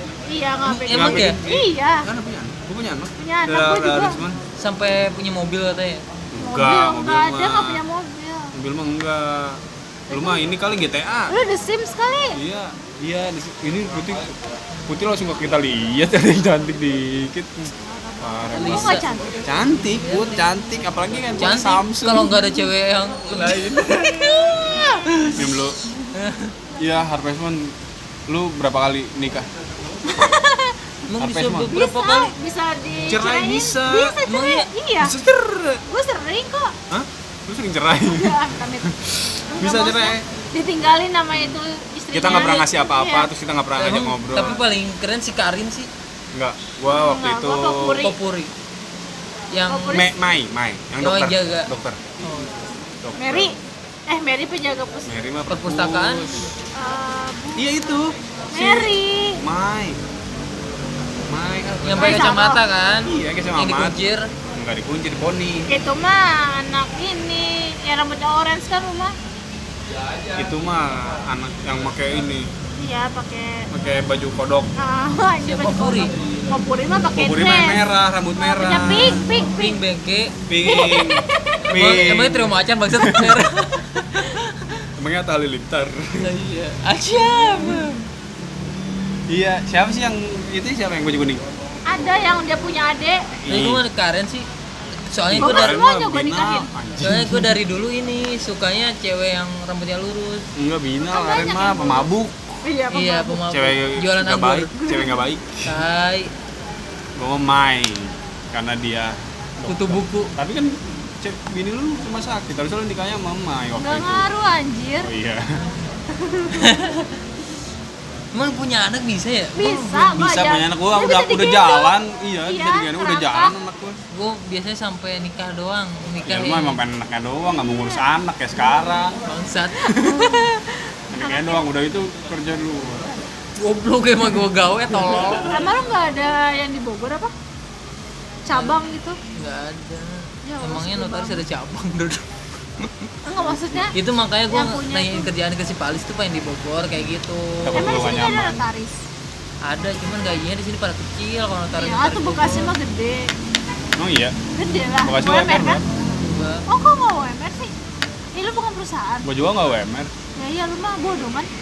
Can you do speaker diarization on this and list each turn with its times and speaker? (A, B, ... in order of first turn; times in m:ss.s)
0:00.3-0:02.1 A
0:00.7-0:01.4 B
0:00.9-0:04.4 C
0:03.2-0:04.2 A
0:04.6-0:06.0 B
0:06.3-0:07.8 C
0:06.4-0:08.5 A
0:08.5-0:11.4 C
0:10.1-0:10.4 A
0:11.3-0:12.4 A
0:12.3-0:22.5 C
0:17.9-0:19.4 A
0:18.6-0:19.0 B
0:19.8-0:20.4 B
0:21.4-0:24.1 B
0:23.3-0:25.8 C
0:26.2-0:26.5 B
0:26.8-0:27.8 C
0:28.3-0:29.5 C
0:30.0-0:30.8 A
0:31.1-0:32.3 B
0:31.2-0:31.7 C
0:31.7-0:35.1 A
0:33.0-0:34.2 C
0:34.3-0:34.7 B
0:35.0-0:35.8 C
0:35.9-0:36.8 A
0:36.9-0:40.2 C
0:38.0-0:38.9 A
0:39.5-0:43.3 A
0:41.3-0:41.6 C
0:42.1-0:44.6 C
0:43.8-0:45.9 B
0:46.3-0:48.1 C
0:46.9-0:48.2 A
0:48.0-0:48.5 B
0:49.5-0:50.0 B
0:49.7-0:50.1 A
0:49.9-0:52.0 C
0:51.0-0:51.7 B
0:52.2-0:52.5 B
0:53.0-0:53.5 C
0:53.2-0:53.6 A
0:54.1-0:55.2 A
0:55.1-0:56.5 C
0:55.5-0:56.3 B
0:56.8-0:57.8 A
0:57.6-1:00.0 C
0:58.5-0:59.4 A
1:01.2-1:02.3 C
1:01.8-1:04.3 B
1:02.0-1:02.6 A
1:03.1-1:04.0 C
1:04.5-1:05.7 C
1:05.7-1:09.1 A
1:10.4-1:12.5 C
1:12.8-1:13.7 A
1:13.7-1:14.7 C
1:14.8-1:17.8 A
1:15.4-1:16.1 B
1:17.1-1:19.2 C
1:18.4-1:19.8 A
1:19.6-1:20.3 B
1:20.5-1:23.5 C
1:20.6-1:21.6 A
1:21.7-1:24.5 B
1:25.0-1:26.2 C
1:26.2-1:28.0 B
1:29.3-1:31.4 C
1:31.9-1:33.2 A
1:33.4-1:33.8 C
1:33.5-1:34.5 B
1:35.1-1:35.7 B
1:35.3-1:37.6 C
1:35.4-1:36.7 A
1:37.0-1:40.5 B
1:40.6-1:42.6 C
1:41.1-1:42.1 A
1:42.6-1:43.4 A
1:42.9-1:44.7 B
1:43.5-1:45.8 C
1:44.8-1:45.2 A
1:45.7-1:46.3 B
1:47.2-1:54.3 C
1:49.7-1:50.3 B
1:53.8-1:55.1 A
1:55.0-1:55.4 C
1:56.2-1:56.5 A
1:56.5-1:57.1 B
1:58.3-2:00.1 B
1:59.6-2:03.5 A
2:00.1-2:04.0 C
2:04.1-2:06.8 B
2:06.2-2:09.2 C
2:07.5-2:08.0 A
2:09.3-2:10.2 B
2:09.9-2:11.6 A
2:10.0-2:10.2 C
2:11.1-2:13.1 C
2:13.6-2:15.7 B
2:15.5-2:17.3 A
2:18.5-2:19.2 A
2:19.4-2:22.3 B
2:20.4-2:21.4 A
2:23.2-2:24.0 A
2:23.9-2:28.3 B
2:24.5-2:25.3 A
2:27.6-2:28.6 C
2:27.7-2:29.0 A
2:29.6-2:32.7 B
2:31.8-2:33.3 A
2:34.0-2:34.4 C
2:34.6-2:35.8 A
2:35.0-2:35.9 C
2:36.2-2:36.6 B
2:36.7-2:37.7 A
2:38.4-2:39.3 A
2:39.2-2:40.1 C
2:40.4-2:41.5 A